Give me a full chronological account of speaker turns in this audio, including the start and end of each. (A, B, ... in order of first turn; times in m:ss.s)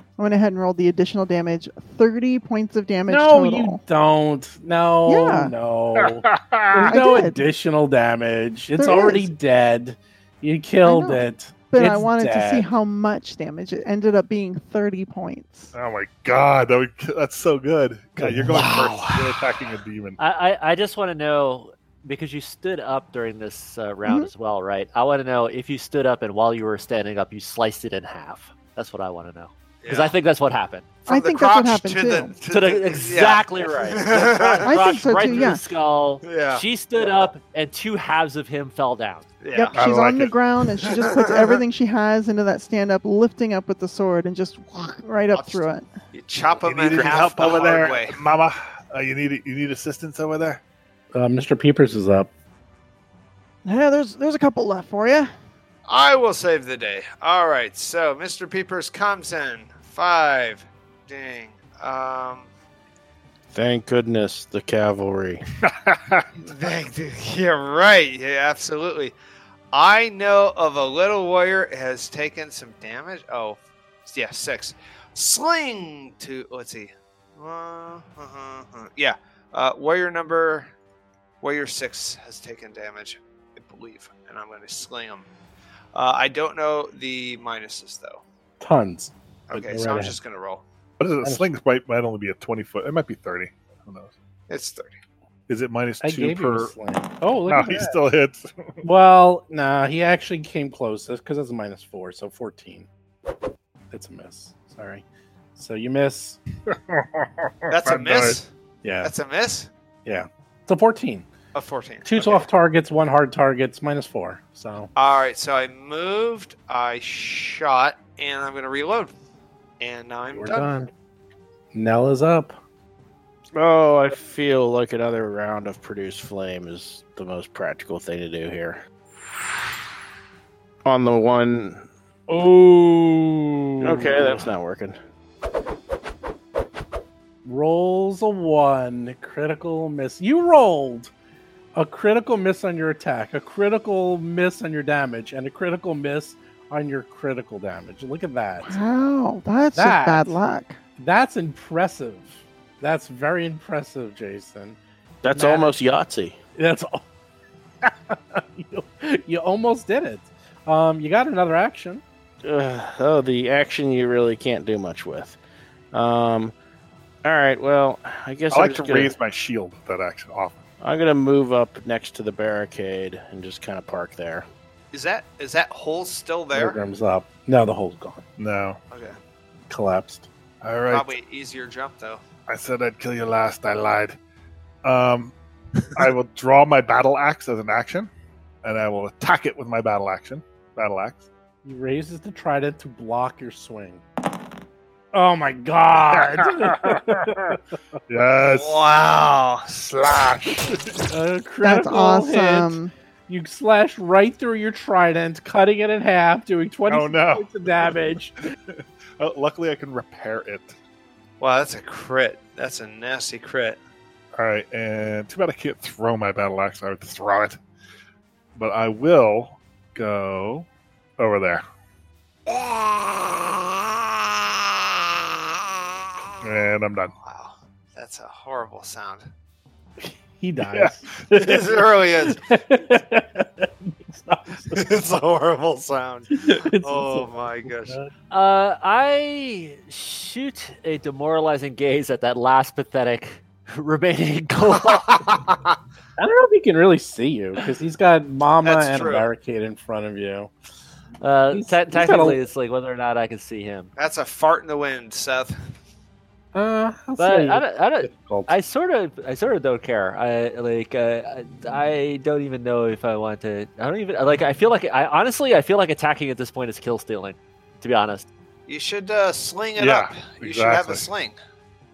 0:00.2-0:03.8 A
0:03.1-0:12.7 B
0:05.1-0:05.5 A
0:06.0-0:06.9 C
0:06.9-0:07.4 A
0:08.8-0:09.3 A
0:10.8-0:15.7 A
0:15.7-0:20.2 C
0:18.5-0:19.5 D
0:20.2-0:31.0 E
0:24.0-0:24.3 A
0:29.8-0:30.1 D
0:31.1-0:35.5 D
0:31.1-0:32.4 A
0:32.5-0:39.3 E
0:34.6-0:35.6 A
0:36.2-0:36.6 D
0:39.4-0:39.8 D
0:39.5-0:45.9 A
0:39.7-0:40.4 C
0:40.8-0:41.6 D
0:45.3-0:48.2 D
0:46.6-0:50.6 C
0:51.1-0:52.3 B
0:53.6-0:55.3 A
0:55.9-1:02.5 D
1:03.5-1:05.4 F
1:05.6-1:06.3 C
1:06.4-1:09.2 D
1:09.7-1:20.7 D
1:21.4-1:25.3 D
1:25.9-1:28.2 D
1:28.6-1:30.2 B
1:29.5-1:30.6 D
1:31.0-1:34.1 C
1:31.2-1:31.5 B
1:34.5-1:35.0 D
1:35.5-1:36.7 C
1:36.0-1:38.0 B
1:37.5-1:38.5 C
1:38.8-1:42.9 B
1:43.9-1:45.0 B
1:45.6-1:46.4 B
1:46.7-1:48.4 C
1:47.7-1:48.5 D
1:48.8-1:49.1 B
1:49.0-1:49.7 D
1:50.1-1:51.3 B
1:51.6-1:52.5 D
1:52.0-1:54.9 B
1:55.0-1:59.1 D
1:59.8-2:00.7 D
2:00.3-2:00.9 B
2:01.7-2:02.6 B
2:03.6-2:08.8 F
2:10.8-2:11.9 F
2:12.3-2:14.5 B
2:13.8-2:15.0 F
2:17.4-2:21.1 B
2:21.8-2:28.8 B
2:28.6-2:30.8 A
2:29.8-2:30.4 B
2:31.0-2:35.8 B
2:35.2-2:36.4 F
2:36.6-2:37.0 B
2:37.8-2:42.0 B
2:42.4-2:45.4 F
2:45.9-2:46.5 F
2:47.2-2:49.1 F
2:48.5-2:50.6 C
2:50.8-2:54.5 F
2:54.9-2:56.8 D
2:56.5-2:58.2 B
2:58.4-2:58.8 C
2:58.9-2:59.2 D
2:59.7-3:00.3 B
3:00.6-3:01.1 C
3:00.9-3:02.2 D
3:02.5-3:04.2 C
3:04.8-3:05.3 C
3:05.9-3:08.1 C
3:08.6-3:11.2 C
3:11.6-3:14.0 B
3:15.1-3:17.6 B
3:16.1-3:17.6 C
3:18.1-3:18.8 C
3:18.4-3:19.8 D
3:19.7-3:21.1 C
3:21.1-3:28.4 B
3:21.6-3:22.9 A
3:26.9-3:28.0 C
3:29.2-3:30.8 C
3:31.4-3:33.8 D
3:34.4-3:37.6 C
3:38.6-3:40.7 C
3:41.2-3:41.6 C
3:46.4-3:47.1 C
3:47.2-3:49.3 D
3:50.0-3:54.9 B
3:50.6-3:51.2 C
3:51.3-3:52.4 D
3:54.7-3:58.0 D
3:56.3-3:58.1 B
3:58.3-4:05.3 E
4:04.8-4:05.7 D
4:06.2-4:10.5 B
4:08.6-4:09.3 D
4:11.2-4:13.9 E
4:11.5-4:12.4 B
4:14.0-4:15.7 D
4:16.6-4:18.6 B
4:17.2-4:28.3 E
4:28.7-4:31.4 D
4:29.8-4:31.1 C